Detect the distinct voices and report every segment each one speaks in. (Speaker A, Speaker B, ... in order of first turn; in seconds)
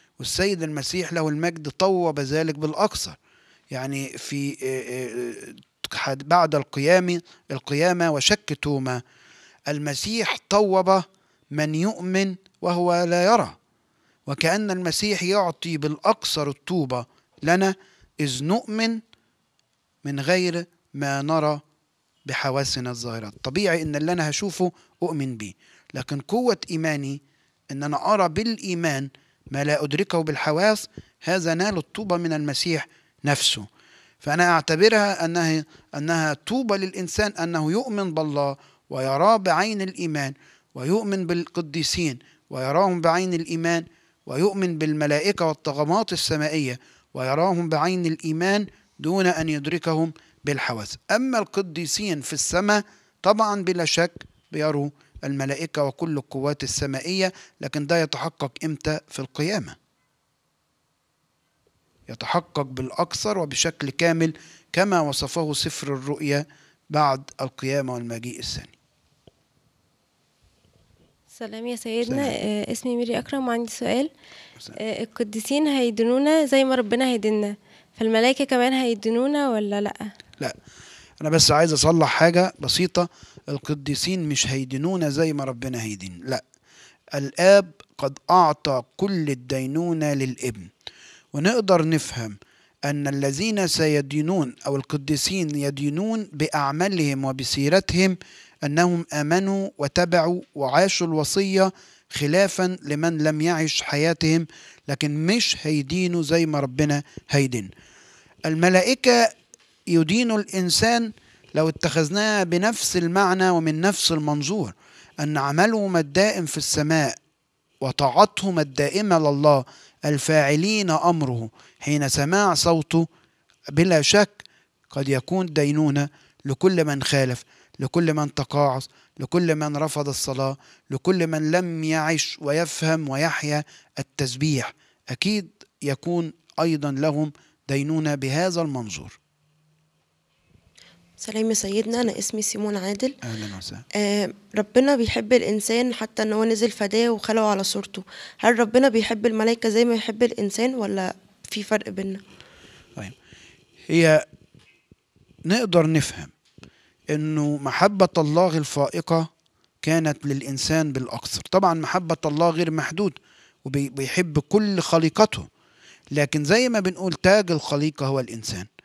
Speaker A: 0.2-3.2, 3.7-9.0, 9.7-13.6, 14.3-19.0, 20.0-21.6, 22.3-33.7, 34.2-59.8, 62.1-68.7, 72.0-72.3, 81.2-86.4, 87.2-90.7, 91.3-107.7, 108.5-109.3, 109.9-117.2, 117.8-123.1, 123.8-139.2, 143.2-143.8, 153.9-154.2, 155.5-156.3, 157.1-159.3, 159.8-165.5, 166.1-168.7
Speaker B: 71.3-74.1, 74.7-80.1
Speaker C: 141.2-143.2, 144.0-152.2